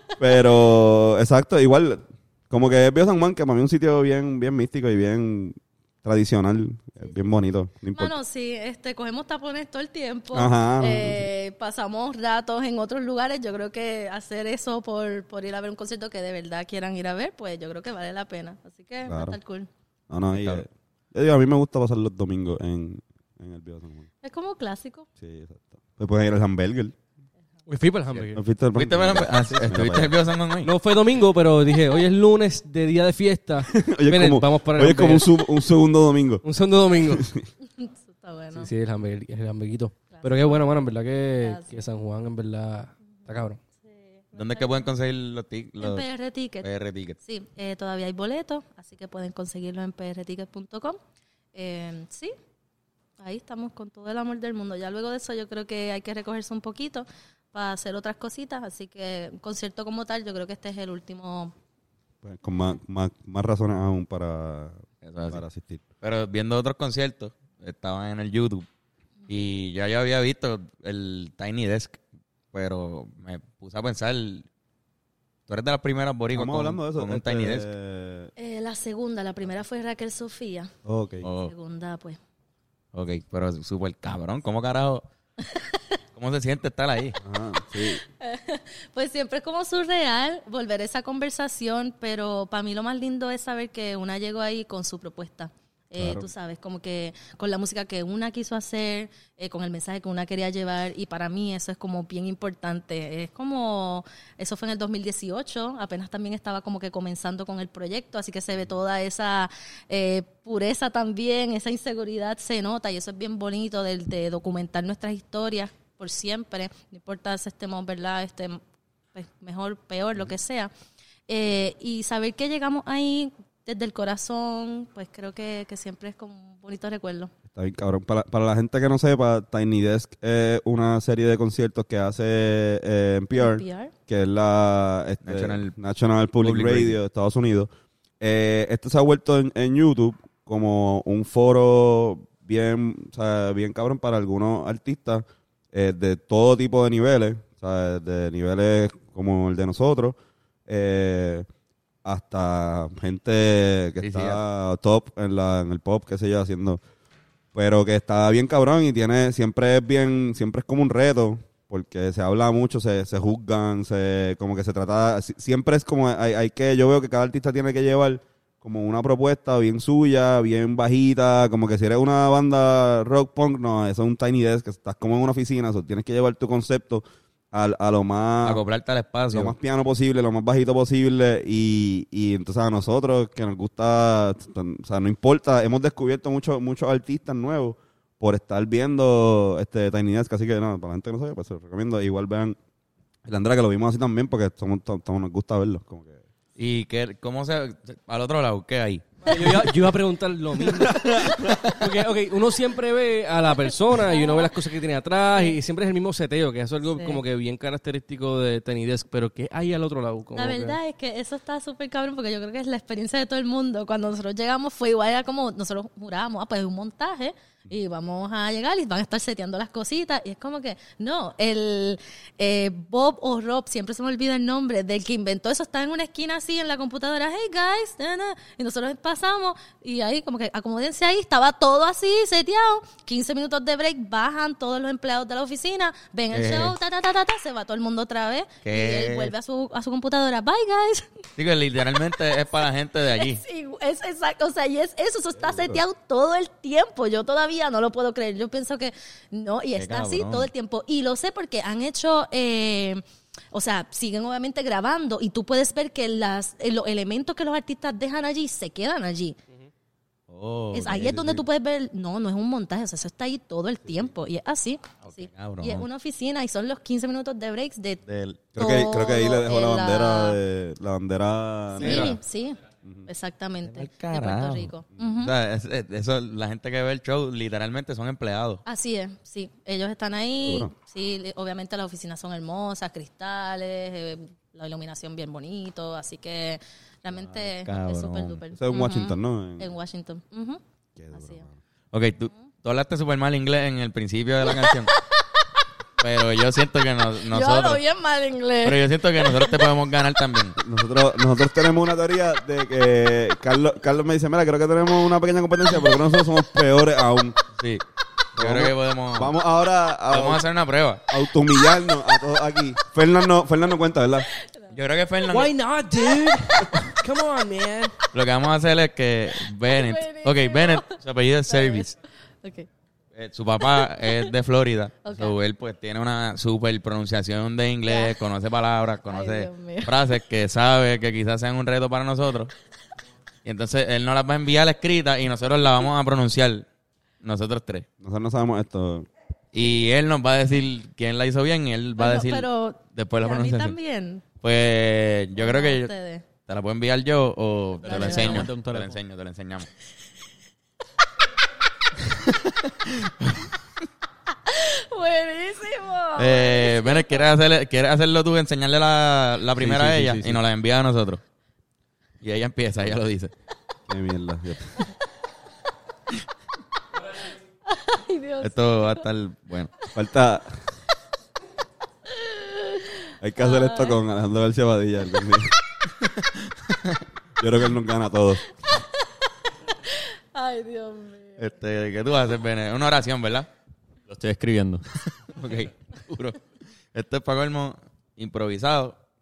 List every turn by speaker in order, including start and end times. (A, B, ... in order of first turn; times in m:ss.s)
0:00.2-0:08.1 A
0:07.9-0:19.7 B
0:10.3-0:11.3 A
0:19.0-0:19.4 A
0:20.1-0:24.1 A
0:20.3-0:20.6 C
0:24.2-0:25.1 B
0:25.2-0:26.9 A
0:27.7-0:28.4 D
0:28.3-0:30.1 A
0:28.7-0:30.7 C
0:30.6-0:35.2 D
0:33.7-0:36.4 A
0:36.4-0:37.3 D
0:37.1-0:37.4 A
0:37.7-0:38.7 B
0:38.5-0:43.6 D
0:40.1-0:40.6 B
0:41.4-0:41.8 B
0:43.8-0:44.9 B
0:44.3-0:46.0 C
0:45.8-0:51.0 B
0:46.6-0:47.2 C
0:51.5-0:52.3 B
0:53.2-1:01.5 B
1:02.2-1:05.8 A
1:05.0-1:05.4 C
1:06.0-1:08.6 C
1:09.3-1:12.0 C
1:12.5-1:14.5 C
1:15.5-1:17.6 C
1:16.3-1:18.3 A
1:18.4-1:20.7 B
1:20.8-1:21.2 A
1:21.2-1:21.5 C
1:21.4-1:22.2 B
1:22.9-1:25.0 C
1:25.5-1:25.8 B
1:26.1-1:27.2 C
1:27.2-1:28.0 A
1:28.1-1:58.6 B
1:36.0-1:36.3 A
1:59.1-2:00.7 B
2:01.3-2:07.3 B
2:07.5-2:30.2 A
2:13.3-2:13.9 B
2:15.2-2:15.7 C
2:16.4-2:17.0 C
2:30.7-2:31.5 A
2:32.0-2:36.8 A
2:34.0-2:34.4 C
2:37.5-2:58.6 A
2:58.4-2:59.5 C
2:59.3-3:12.6 A
3:13.2-3:16.2 A
3:16.6-3:19.5 C
3:19.2-3:30.8 D
3:20.8-3:21.7 A
3:24.1-3:24.5 B
3:26.8-3:27.2 B
3:30.3-4:01.1 B
3:56.3-3:56.8 C
3:58.6-3:59.3 C
4:01.4-4:03.4 C
4:03.2-4:19.4 B
4:05.4-4:05.8 A
4:09.8-4:10.5 C
4:20.3-4:21.4 C
4:20.7-4:28.0 B
4:25.0-4:25.8 C
4:28.0-4:28.4 C
4:28.5-4:32.2 A
4:28.6-4:30.4 B
4:31.7-4:35.3 B
4:31.8-4:32.2 C
4:33.7-4:38.6 C
4:38.6-4:51.4 B
4:40.4-4:40.7 A
4:47.1-4:48.4 C
4:48.5-4:49.7 A
4:51.0-4:51.6 A
4:51.9-4:54.9 C
4:54.5-4:55.4 B
4:56.0-4:57.8 C
4:57.3-4:59.5 B
4:58.6-5:00.6 C
5:00.6-5:07.4 A
5:07.6-5:07.8 C
5:08.3-5:09.4 C
5:08.4-5:10.4 A
5:10.1-5:11.0 C
5:11.1-5:14.3 A
5:14.7-5:15.5 C
5:15.3-5:17.9 D
5:18.1-5:21.9 C
5:19.7-5:21.0 B
5:21.5-5:21.9 B
5:22.4-5:22.7 B
5:23.1-5:32.5 C
5:24.0-5:24.3 B
5:25.0-5:25.4 B
5:27.9-5:28.2 B
5:29.1-5:29.9 B
5:33.4-5:36.7 C
5:37.2-5:37.9 C
5:38.0-5:39.1 A
5:39.5-5:43.8 C
5:42.0-5:44.2 B
5:44.4-5:45.9 C
5:45.4-5:46.2 B
5:46.4-5:49.7 C
5:47.8-5:48.5 B
5:47.8-5:49.0 E
5:52.1-5:53.5 C
5:54.3-5:57.3 B
5:56.2-6:01.2 C
5:59.6-6:00.4 E
6:02.2-6:03.3 C
6:03.9-6:04.9 A
6:07.6-6:09.0 B
6:08.4-6:09.7 C
6:09.9-6:10.6 A
6:12.1-6:14.0 B
6:13.2-6:15.5 A
6:16.0-6:17.0 C
6:17.4-6:18.4 A
6:18.6-6:19.0 B
6:19.9-6:21.5 B
6:21.4-6:23.5 C
6:24.1-6:24.8 E
6:25.2-6:26.4 C
6:26.9-6:29.0 C